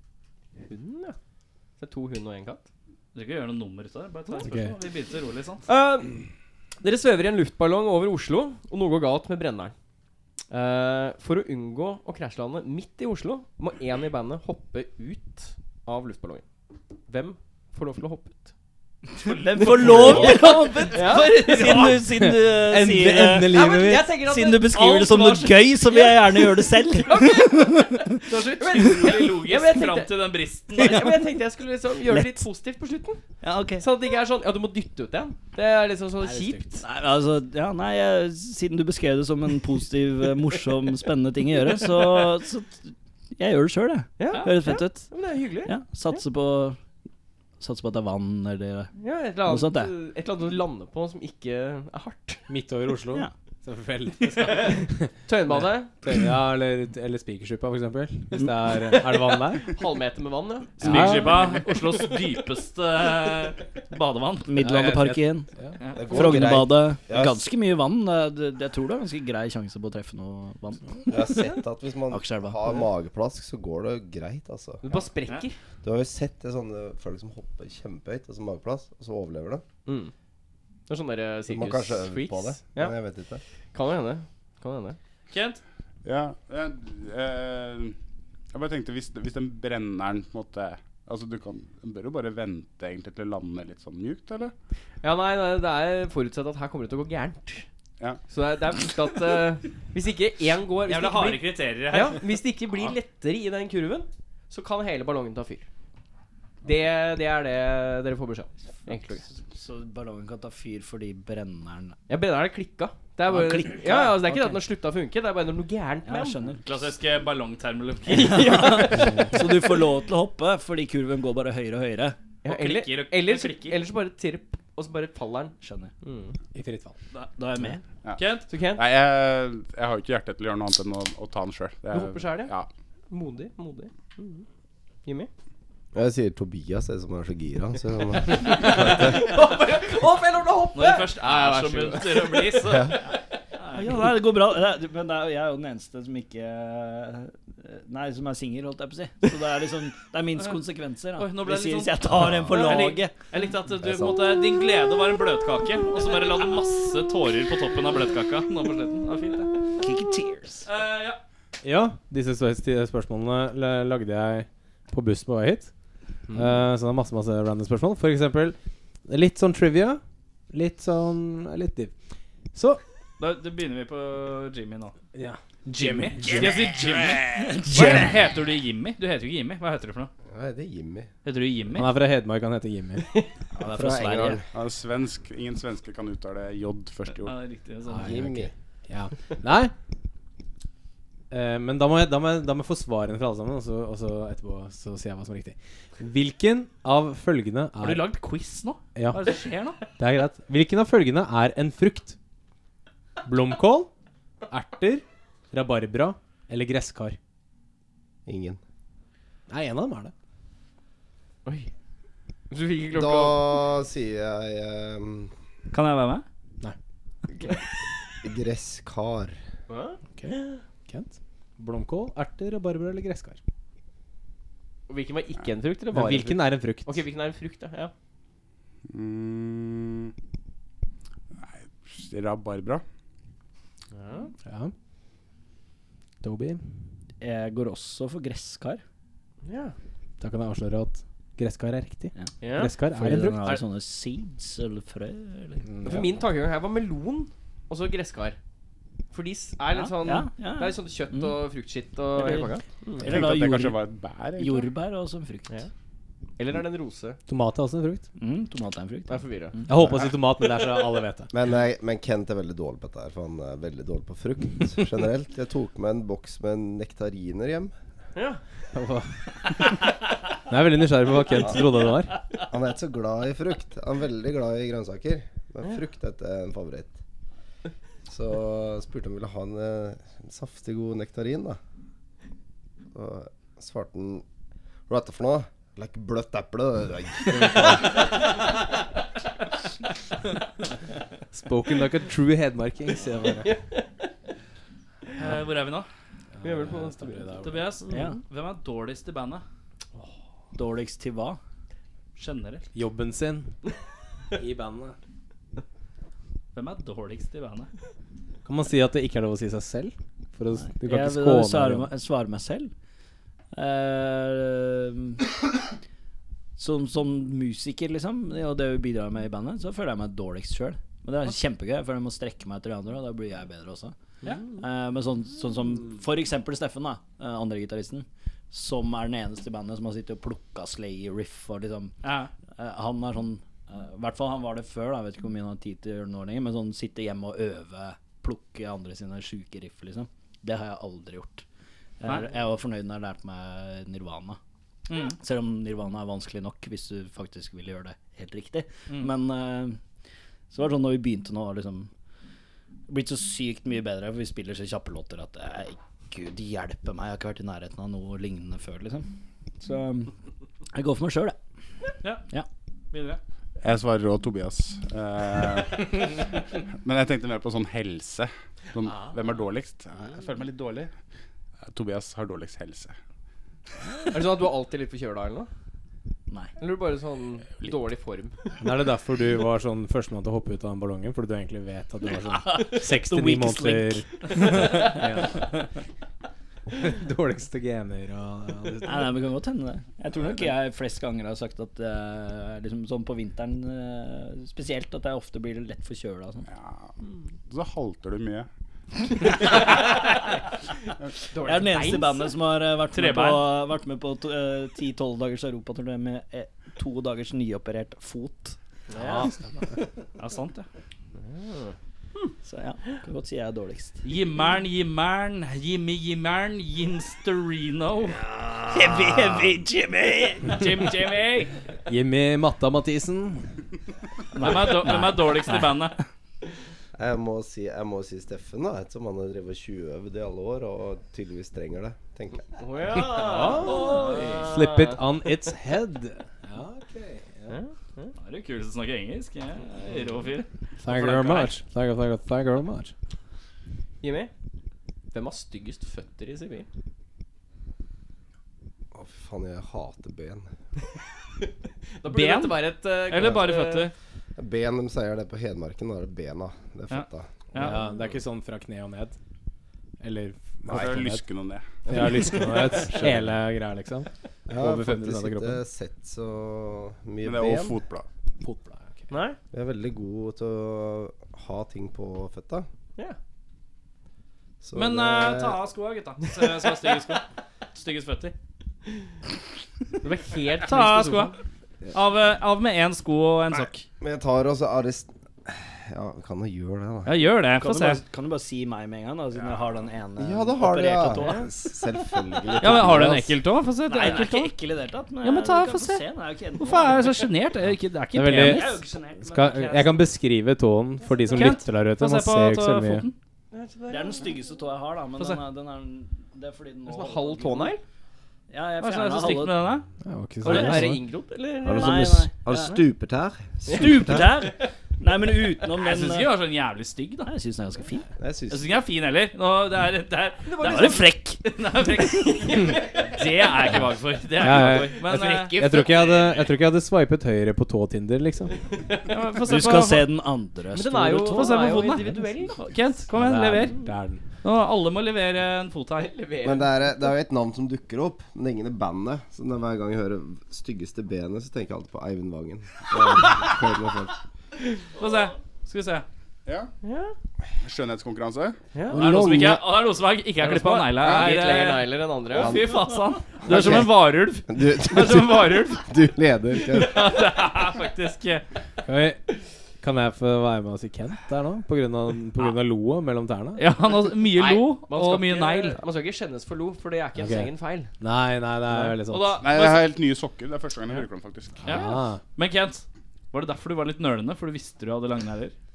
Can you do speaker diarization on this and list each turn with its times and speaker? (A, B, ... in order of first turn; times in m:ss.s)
0:00.6-0:01.2 A
0:01.8-0:02.7 A
0:03.1-0:05.6 B
0:04.4-0:04.7 C
0:05.7-0:06.3 A
0:06.8-0:09.7 A
0:10.5-0:16.4 A
0:17.0-0:18.5 A
0:19.2-0:22.0 B
0:19.2-0:28.2 D
0:19.6-0:21.9 A
0:19.8-0:20.4 C
0:22.1-0:24.1 C
0:23.4-0:33.2 A
0:25.0-0:25.4 B
0:28.2-0:31.2 B
0:32.1-0:32.5 D
0:33.4-0:33.8 D
0:33.8-0:36.8 A
0:36.2-0:36.8 C
0:36.8-0:46.8 D
0:44.2-0:45.7 A
0:47.6-0:49.9 D
0:49.0-0:52.4 A
0:52.5-0:59.7 C
0:55.2-0:55.9 A
0:59.7-1:01.7 A
1:00.8-1:01.5 C
1:00.8-1:04.5 B
1:04.4-1:05.5 D
1:04.6-1:05.8 C
1:05.8-1:06.4 B
1:05.9-1:07.4 E
1:06.1-1:11.5 D
1:11.1-1:14.8 E
1:12.1-1:12.8 D
1:14.8-1:15.6 A
1:14.9-1:15.5 B
1:15.8-1:19.6 E
1:19.8-1:20.1 A
1:20.9-1:23.0 A
1:21.5-1:23.4 E
1:23.7-1:25.0 A
1:25.3-1:25.6 B
1:26.0-1:28.0 F
1:28.5-1:34.5 F
1:35.0-1:37.6 A
1:38.3-1:45.7 A
1:40.8-1:42.9 B
1:46.6-1:49.2 A
1:49.3-1:52.0 D
1:52.1-1:56.4 A
1:53.3-1:54.6 D
1:56.0-1:56.6 D
1:56.6-1:59.0 B
1:58.1-1:59.1 A
1:58.2-2:02.2 D
2:02.4-2:06.4 A
2:02.4-2:03.8 B
2:05.6-2:05.9 D
2:06.5-2:06.9 C
2:07.1-2:07.8 D
2:08.0-2:12.7 F
2:08.2-2:08.5 B
2:08.5-2:08.8 A
2:11.9-2:12.5 A
2:13.1-2:14.4 A
2:15.0-2:15.3 A
2:15.9-2:19.2 E
2:18.3-2:22.8 A
2:20.7-2:24.0 B
2:22.6-2:23.0 E
2:23.7-2:33.1 D
2:31.2-2:39.6 B
2:32.5-2:32.9 A
2:33.8-2:34.3 E
2:39.8-2:40.7 D
2:40.6-2:41.2 B
2:41.6-2:45.7 C
2:46.3-2:46.6 A
2:46.3-2:51.9 C
2:52.5-2:52.8 C
2:53.2-2:54.9 B
2:55.1-2:56.7 C
2:55.7-3:00.1 B
2:57.4-2:58.1 D
3:00.3-3:01.1 E
3:01.2-3:01.9 B
3:01.7-3:03.1 C
3:03.6-3:04.4 D
3:03.6-3:04.5 E
3:04.5-3:07.4 F
3:07.2-3:08.2 B
3:07.9-3:09.7 C
3:07.9-3:08.5 E
3:11.3-3:18.1 C
3:17.8-3:19.8 B
3:19.0-3:22.2 C
3:23.2-3:23.9 C
3:24.5-3:27.2 C
3:28.3-3:28.6 E
3:29.5-3:30.1 C
3:31.4-3:31.7 A
3:32.5-3:33.6 A
3:32.9-3:35.3 E
3:35.7-3:36.2 B
3:38.2-3:39.4 E
3:39.7-3:40.6 A
3:40.2-3:43.4 C
3:44.9-3:47.9 A
3:45.9-3:47.0 C
3:48.9-3:50.1 F
3:51.4-3:52.8 F
3:53.9-3:54.3 A
3:54.4-3:54.7 C
3:56.2-3:56.6 C
3:57.2-3:58.8 D
3:59.4-3:59.8 A
4:00.2-4:03.6 C
4:02.4-4:02.7 A
4:02.9-4:05.6 D
4:05.6-4:06.1 C
4:05.8-4:08.4 A
4:09.1-4:13.1 A
4:10.0-4:11.4 D
4:12.1-4:13.8 D
4:13.0-4:14.7 F
4:14.4-4:15.5 D
4:16.4-4:17.2 A
4:17.3-4:18.0 C
4:18.2-4:19.7 D
4:19.1-4:19.6 A
4:19.7-4:21.3 C
4:21.3-4:27.7 E
4:28.1-4:28.4 A
4:28.7-4:29.8 C
4:30.5-4:32.1 C
4:31.3-4:31.6 E
4:32.5-4:37.0 E
4:38.1-4:41.6 E
4:42.9-4:44.2 E
4:44.9-4:48.1 E
4:51.3-4:53.5 C
4:53.4-4:53.9 A
4:55.2-4:55.9 B
4:56.4-4:57.7 C
4:56.4-4:58.1 A
4:57.4-4:59.4 B
4:57.9-4:58.2 D
5:00.5-5:01.4 D
5:02.2-5:02.6 B
5:02.7-5:03.6 C
5:04.3-5:05.0 C
5:06.5-5:07.7 B
5:08.4-5:11.9 C
5:10.6-5:12.7 D
5:13.5-5:15.3 D
5:16.6-5:23.9 D
5:24.6-5:32.0 D
5:32.0-5:32.3 B
5:32.6-5:41.4 D
5:42.0-5:44.4 D
5:44.9-5:45.2 B
5:44.9-5:49.8 D
5:50.5-5:51.9 D
5:52.9-5:59.1 D
5:59.6-6:00.1 D
6:00.7-6:01.4 D
6:02.9-6:03.2 B
6:03.6-6:10.9 F
6:11.6-6:12.9 F
6:14.0-6:15.5 A
6:16.6-6:18.4 A
6:18.6-6:25.5 C
6:22.4-6:25.0 D
6:26.7-6:29.1 C
6:28.8-6:36.5 D
6:36.5-6:36.9 F
6:37.5-6:38.5 F
6:41.2-6:42.3 A
6:41.4-6:48.6 D
6:42.9-6:43.5 B
6:48.9-6:49.3 A
6:49.0-6:49.7 C
6:50.2-6:50.7 B
6:51.2-6:51.7 A
6:52.4-6:54.0 D
6:54.0-6:58.2 B
6:58.7-7:00.6 D
6:59.0-6:59.3 B
7:00.4-7:01.5 B
7:01.8-7:03.5 C
7:04.3-7:06.0 B
7:04.4-7:05.7 D
7:07.0-7:12.6 E
7:12.6-7:15.0 A
7:13.1-7:17.6 C
7:13.4-7:14.5 D
7:13.4-7:14.4 B
7:17.5-7:18.1 A
7:18.2-7:21.6 B
7:20.8-7:22.9 C
7:24.0-7:24.3 A
7:25.1-7:26.7 A
7:28.9-7:30.5 E
7:32.0-7:33.9 A
7:32.0-7:33.9 B
7:34.4-7:37.3 E
7:36.9-7:37.8 B
7:37.5-7:39.2 C
7:40.0-7:41.2 C
7:40.7-7:41.8 F
7:41.8-7:45.6 C
7:41.9-7:43.0 A
7:44.5-7:47.8 E
7:47.2-7:48.0 F
7:48.4-7:49.1 C
7:49.1-7:49.4 A
7:49.5-7:52.7 E
7:54.6-7:55.6 E
7:54.7-7:58.3 B
8:00.0-8:01.4 A
8:00.6-8:01.4 B
8:01.9-8:03.8 B
8:04.0-8:07.2 E
8:07.0-8:08.0 B
8:07.5-8:11.6 D
8:10.2-8:13.4 E
8:12.6-8:14.5 B
8:13.9-8:17.0 D
8:15.2-8:16.0 B
8:16.6-8:18.8 B
8:18.1-8:23.1 C
8:18.3-8:20.0 D
8:21.3-8:23.1 B
8:23.5-8:24.3 A
8:23.9-8:27.8 D
8:26.9-8:27.8 A
8:28.5-8:29.6 D
8:28.8-8:29.8 B
8:30.0-8:31.0 C
8:30.4-8:32.0 A
8:30.4-8:30.8 B
8:31.6-8:34.3 E
8:31.7-8:32.8 D
8:33.7-8:36.3 D
8:33.7-8:34.0 A
8:35.8-8:37.3 B
8:37.2-8:38.1 D
8:38.2-8:38.7 E
8:38.5-8:45.8 B
8:40.5-8:41.0 A
8:40.6-8:41.4 D
8:42.4-8:43.2 A
8:44.4-8:48.6 C
8:44.4-8:46.5 A
8:49.1-8:50.1 B
8:49.4-8:52.2 D
8:50.7-8:52.6 A
8:51.3-8:53.8 B
8:53.1-8:54.2 C
8:54.4-8:56.1 B
8:56.0-8:56.7 A
8:56.4-9:04.2 E
9:04.9-9:06.0 B
9:06.8-9:07.1 A
9:07.6-9:08.6 F
9:08.7-9:09.0 A
9:08.9-9:09.6 E
9:08.9-9:15.9 B
9:10.4-9:12.6 A
9:11.0-9:11.4 F
9:12.3-9:17.3 E
9:16.6-9:18.4 B
9:18.8-9:19.2 C
9:19.8-9:23.6 C
9:23.6-9:25.8 B
9:24.3-9:27.9 A
9:27.1-9:29.4 C
9:29.1-9:29.8 B
9:29.4-9:31.8 F
9:31.6-9:32.2 C
9:31.6-9:35.5 B